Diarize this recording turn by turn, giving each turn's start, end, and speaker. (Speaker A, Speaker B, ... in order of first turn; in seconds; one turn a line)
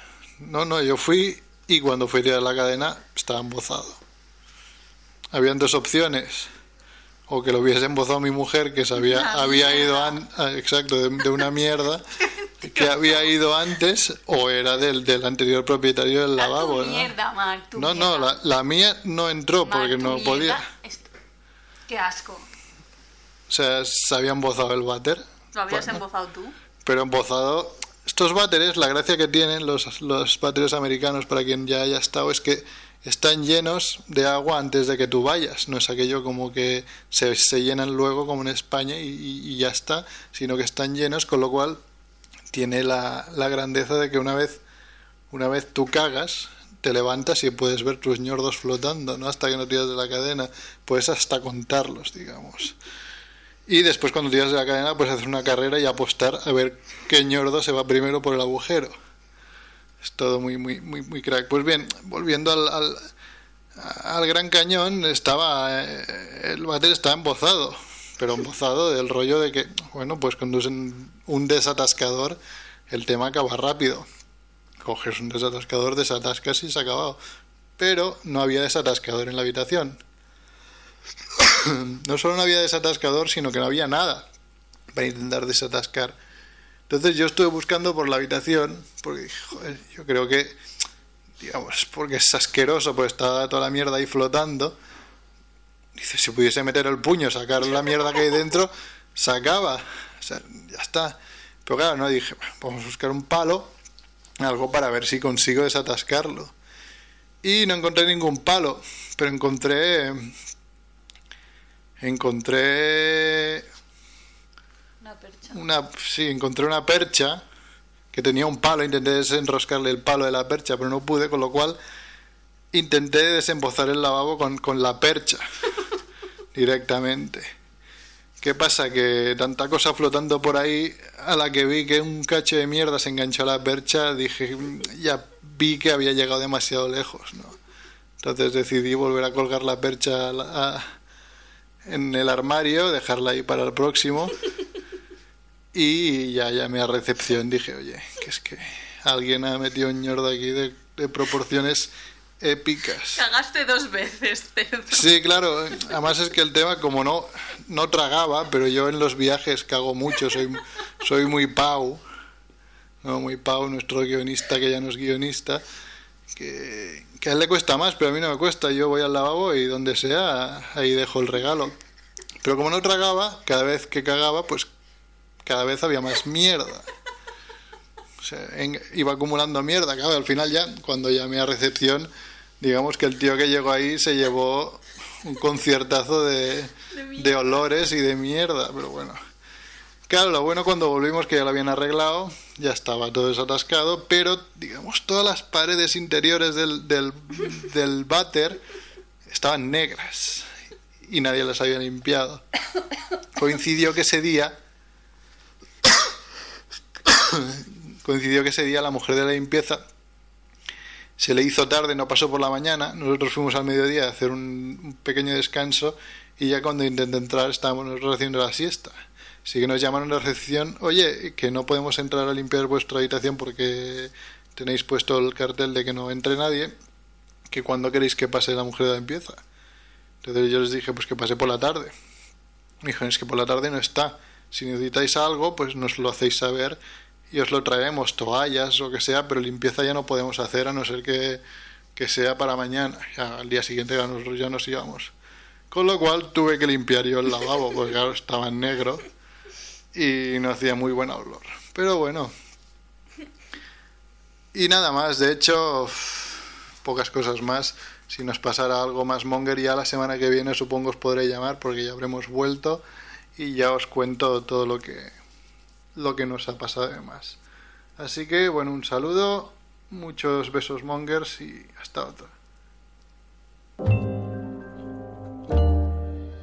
Speaker A: 0.4-4.0
Speaker A: 5.3-6.5
Speaker A: 7.3-12.0
Speaker B: 8.9-10.2
Speaker A: 12.6-17.1
Speaker B: 12.7-13.0
Speaker B: 16.4-18.3
Speaker A: 17.7-20.6
Speaker B: 19.6-21.1
Speaker B: 21.9-22.4
Speaker A: 23.5-26.0
Speaker B: 25.5-26.5
Speaker A: 26.8-41.8
Speaker A: 42.5-44.6
Speaker A: 45.3-52.8
Speaker A: 53.7-58.9
Speaker A: 60.0-63.0
Speaker A: 63.8-72.4
Speaker A: 72.9-74.1
Speaker A: 74.8-77.2
Speaker A: 77.8-80.0
Speaker A: 81.3-84.3
Speaker A: 84.9-86.1
Speaker A: 86.9-90.6
Speaker A: 91.4-94.8
Speaker A: 96.0-103.7
Speaker A: 104.4-106.5
Speaker A: 107.4-110.3
Speaker A: 112.0-113.6
Speaker B: 115.0-115.6
Speaker A: 115.5-117.4
Speaker A: 118.1-121.8
Speaker A: 122.7-125.4
Speaker A: 126.5-127.5
Speaker A: 128.4-137.6
Speaker A: 138.2-140.9
Speaker A: 141.8-144.4
Speaker A: 145.7-153.2
Speaker B: 153.1-155.1
Speaker A: 154.9-162.0
Speaker A: 163.0-165.6
Speaker A: 166.3-171.7
Speaker A: 172.4-174.7
Speaker A: 175.4-176.8
Speaker A: 178.2-182.1
Speaker A: 182.6-189.2
Speaker B: 186.9-187.7
Speaker A: 190.1-198.6
Speaker A: 199.3-200.5
Speaker A: 201.0-202.4
Speaker A: 203.3-204.5
Speaker A: 207.1-209.8
Speaker A: 211.2-226.7
Speaker A: 227.5-229.4
Speaker A: 230.2-231.9
Speaker A: 232.8-236.8
Speaker A: 237.3-241.4
Speaker A: 241.9-245.1
Speaker A: 245.7-249.1
Speaker A: 249.9-252.3
Speaker A: 254.5-262.8
Speaker A: 263.4-265.1
Speaker A: 265.9-267.4
Speaker A: 268.0-272.3